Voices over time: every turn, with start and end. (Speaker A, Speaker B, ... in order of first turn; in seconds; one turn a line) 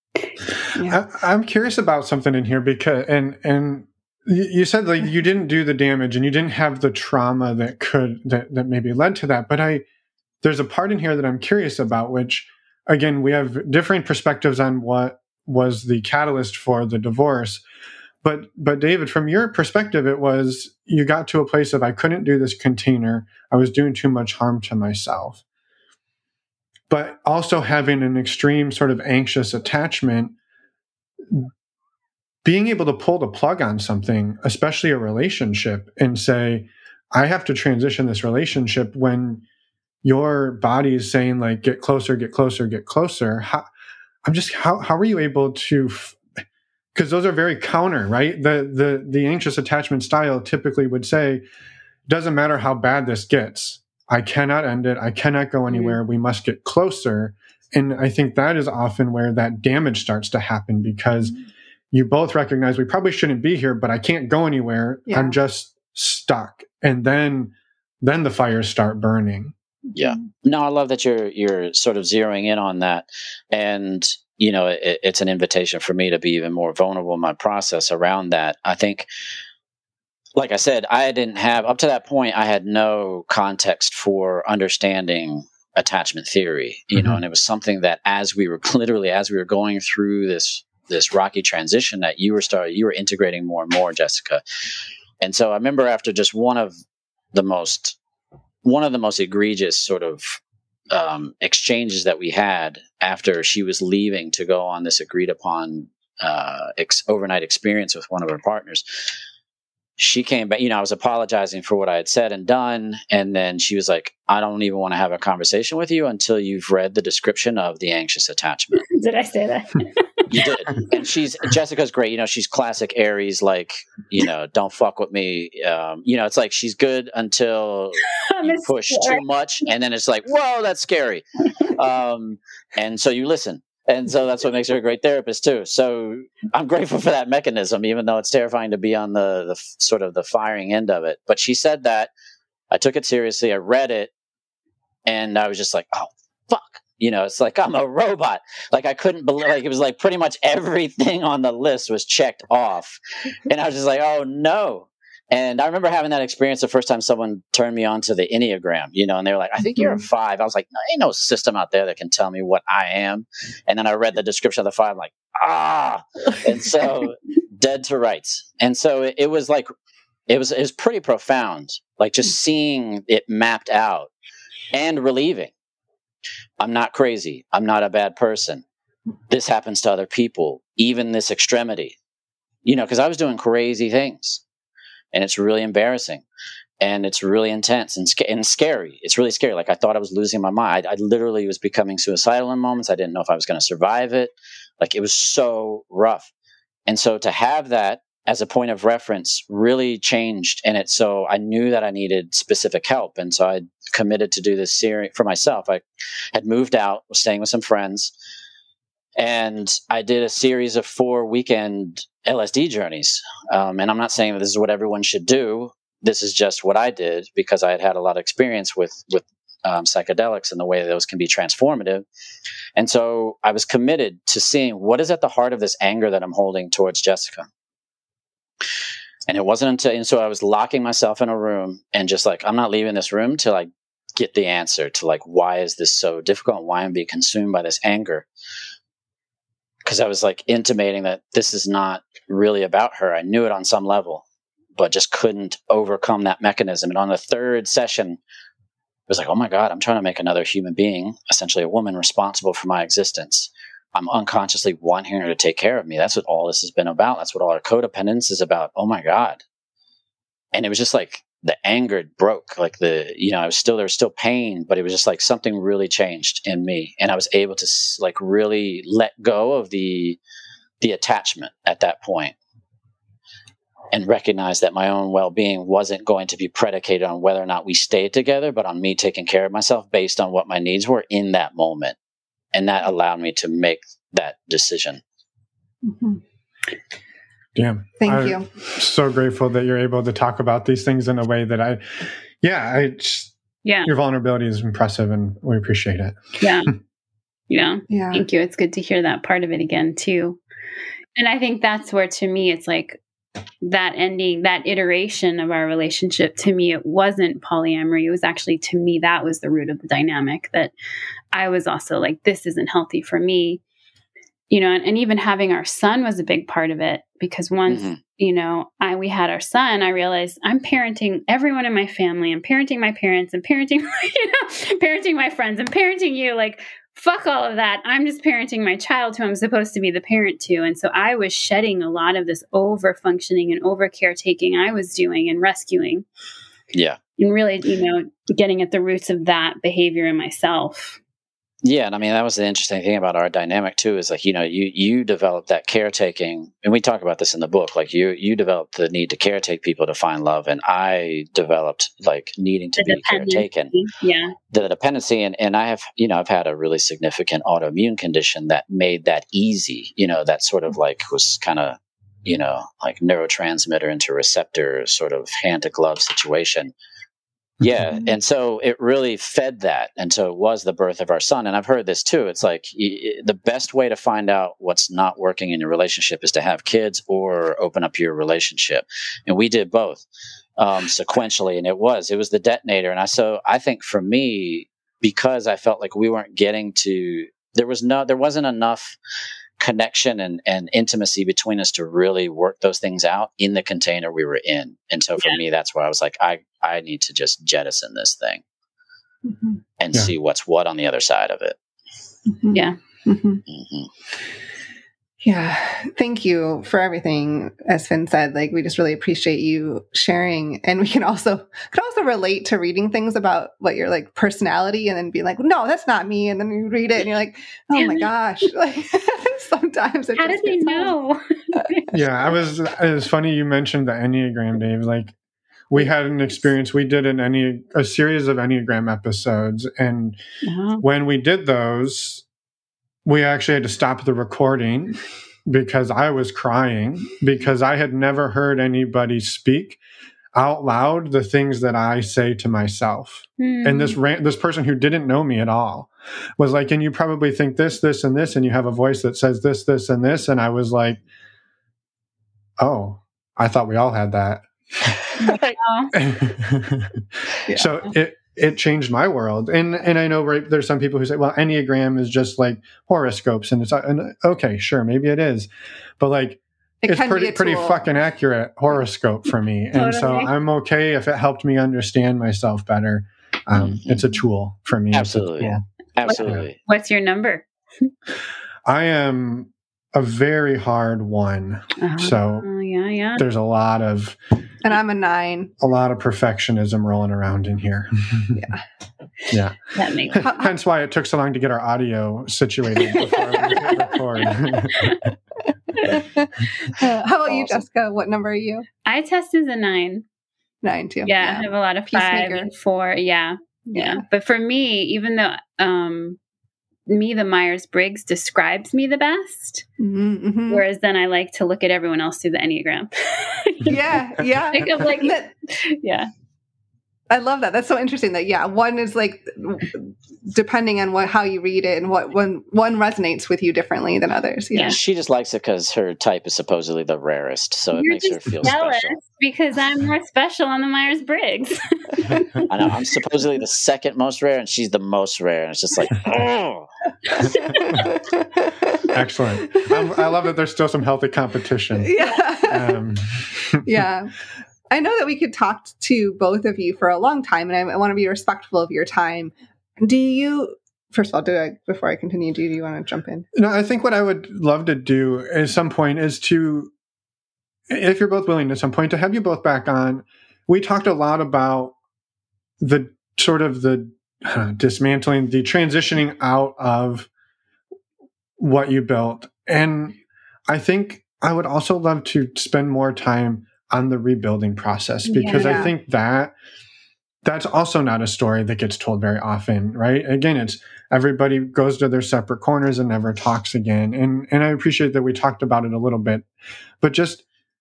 Speaker A: 0.8-9.8
Speaker A: 10.4-17.6
Speaker A: 18.2-25.4
Speaker A: 26.9-30.3
Speaker A: 32.4-39.4
Speaker A: 40.0-43.7
Speaker A: 44.2-46.2
Speaker A: 47.0-51.4
Speaker A: 52.1-61.4
Speaker A: 61.9-69.5
Speaker B: 65.1-65.4
Speaker C: 69.9-79.1
Speaker C: 80.4-94.4
Speaker C: 95.2-96.8
Speaker C: 97.3-98.0
Speaker C: 98.6-100.4
Speaker C: 100.9-109.1
Speaker C: 110.0-118.8
Speaker D: 118.8-120.3
Speaker C: 120.3-142.1
Speaker D: 128.2-129.7
Speaker C: 142.7-144.1
Speaker C: 145.1-169.7
Speaker C: 170.3-174.1
Speaker C: 174.7-175.5
Speaker C: 176.6-178.7
Speaker C: 179.3-182.0
Speaker C: 182.7-184.4
Speaker C: 185.1-186.2
Speaker C: 186.8-196.3
Speaker C: 196.9-208.1
Speaker C: 209.2-222.1
Speaker C: 222.8-227.5
Speaker C: 229.3-238.3
Speaker C: 239.8-244.2
Speaker C: 244.8-248.2
Speaker C: 249.1-259.4
Speaker C: 260.5-270.2
Speaker C: 270.8-272.4
Speaker C: 273.9-282.0
Speaker C: 282.5-285.0
Speaker B: 285.9-286.2
Speaker A: 287.6-293.3
Speaker B: 288.0-288.5
Speaker D: 293.6-293.9
Speaker A: 293.9-296.2
Speaker D: 296.4-296.7
Speaker D: 297.5-300.4
Speaker B: 297.9-298.2
Speaker D: 301.2-303.0
Speaker D: 303.6-310.7
Speaker D: 311.3-313.6
Speaker D: 314.5-336.1
Speaker C: 317.7-318.0
Speaker C: 336.7-337.0
Speaker D: 337.2-341.0
Speaker C: 341.6-353.7
Speaker D: 352.8-354.4
Speaker C: 354.5-366.7
Speaker C: 367.6-380.1
Speaker C: 380.6-389.0
Speaker C: 389.6-398.4
Speaker B: 399.3-399.6
Speaker C: 399.8-401.6
Speaker B: 402.3-403.4
Speaker D: 402.5-402.8
Speaker C: 403.5-403.9
Speaker B: 405.2-420.9
Speaker D: 417.7-418.1
Speaker D: 420.2-421.9
Speaker A: 421.9-425.1
Speaker A: 425.7-430.2
Speaker D: 430.5-430.8
Speaker A: 430.8-432.2
Speaker A: 433.1-439.8
Speaker A: 440.3-451.0
Speaker D: 443.4-444.0
Speaker A: 452.6-454.9
Speaker D: 455.2-455.9
Speaker A: 455.9-475.6
Speaker B: 457.5-457.7
Speaker B: 466.8-467.8
Speaker D: 469.7-470.3
Speaker C: 473.6-474.1
Speaker C: 474.9-476.6
Speaker D: 476.0-477.9
Speaker A: 478.7-482.5
Speaker D: 481.8-483.2
Speaker A: 483.2-484.2
Speaker B: 484.6-485.5
Speaker A: 485.6-488.4
Speaker B: 488.4-488.6
Speaker A: 489.3-495.1
Speaker D: 489.8-490.2
Speaker B: 490.2-490.5
Speaker B: 493.0-493.9
Speaker D: 493.5-495.0
Speaker B: 495.7-498.7
Speaker D: 498.9-500.0
Speaker B: 500.6-502.5
Speaker D: 501.1-506.2
Speaker B: 503.7-504.0
Speaker D: 506.9-509.7
Speaker B: 509.8-510.6
Speaker D: 510.5-516.1
Speaker B: 513.6-515.3
Speaker B: 517.1-524.8
Speaker D: 524.5-524.8
Speaker C: 524.6-529.0
Speaker D: 527.7-532.5
Speaker C: 532.5-536.7
Speaker D: 537.1-537.8
Speaker B: 537.6-538.8
Speaker A: 538.9-543.8
Speaker B: 539.5-540.0
Speaker B: 541.8-542.8
Speaker B: 543.6-544.1
Speaker B: 544.7-553.3
Speaker A: 553.3-556.7
Speaker A: 557.7-561.8
Speaker A: 562.6-567.1
Speaker A: 568.4-570.0
Speaker A: 570.5-576.4
Speaker D: 575.1-575.7
Speaker B: 575.2-575.7
Speaker A: 577.2-586.3
Speaker A: 586.8-587.2